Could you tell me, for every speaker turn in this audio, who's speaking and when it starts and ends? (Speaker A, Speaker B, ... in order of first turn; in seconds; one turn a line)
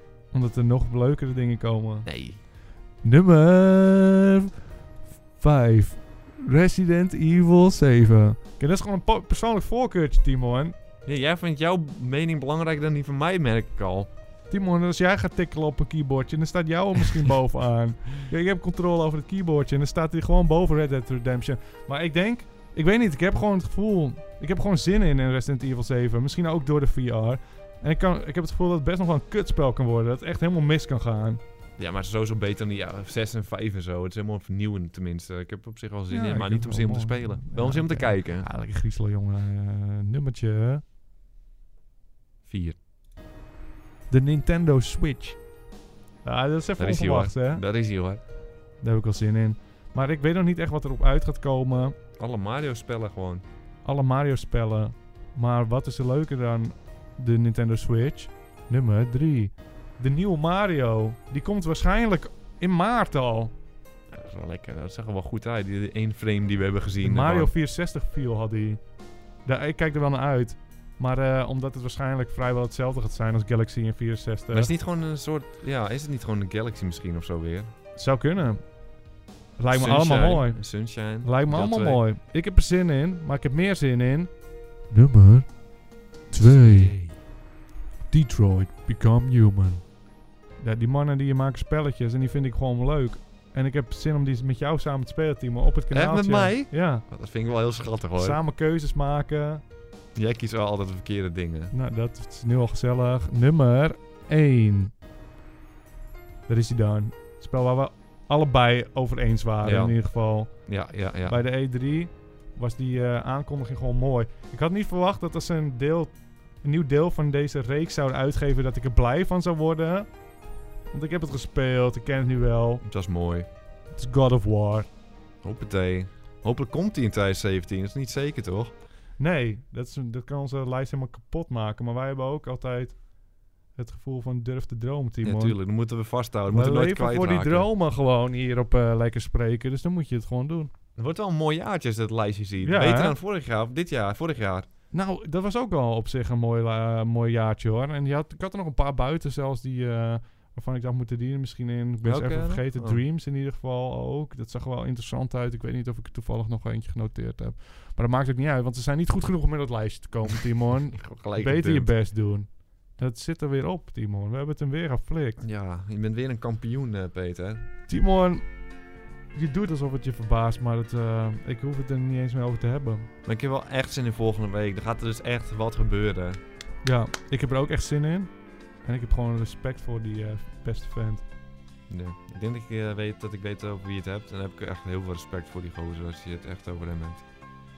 Speaker A: 0.3-2.1
Speaker B: 2.0-2.4
Speaker A: 3.0-4.5
Speaker A: 5.4-10.7
Speaker B: 11.1-14.1
Speaker A: 14.5-31.4
Speaker B: 31.8-38.5
Speaker A: 36.1-40.8
Speaker B: 42.5-42.8
Speaker A: 44.1-45.4
Speaker A: 46.2-47.6
Speaker B: 46.8-48.2
Speaker A: 48.8-52.0
Speaker B: 52.2-53.4
Speaker A: 53.8-63.5
Speaker B: 64.1-67.5
Speaker A: 67.0-68.8
Speaker A: 69.4-74.7
Speaker B: 74.5-77.7
Speaker A: 78.0-78.8
Speaker A: 79.6-84.3
Speaker B: 79.7-82.0
Speaker A: 84.9-85.6
Speaker A: 86.3-87.0
Speaker B: 86.4-87.2
Speaker A: 88.1-89.8
Speaker A: 90.6-97.0
Speaker B: 95.9-98.4
Speaker A: 98.2-99.6
Speaker B: 100.1-101.7
Speaker A: 101.7-104.9
Speaker A: 106.5-120.1
Speaker B: 109.6-111.4
Speaker A: 120.9-122.8
Speaker B: 122.8-123.5
Speaker A: 123.9-124.9
Speaker B: 125.4-128.7
Speaker A: 129.2-133.0
Speaker A: 133.7-135.6
Speaker B: 135.2-137.7
Speaker A: 136.5-140.7
Speaker B: 140.9-144.7
Speaker A: 142.6-143.2
Speaker A: 144.9-165.4
Speaker B: 152.0-153.0
Speaker B: 161.0-161.9
Speaker B: 165.4-167.7
Speaker A: 167.9-168.6
Speaker A: 169.3-173.1
Speaker B: 173.2-176.4
Speaker A: 176.8-181.2
Speaker B: 181.9-187.2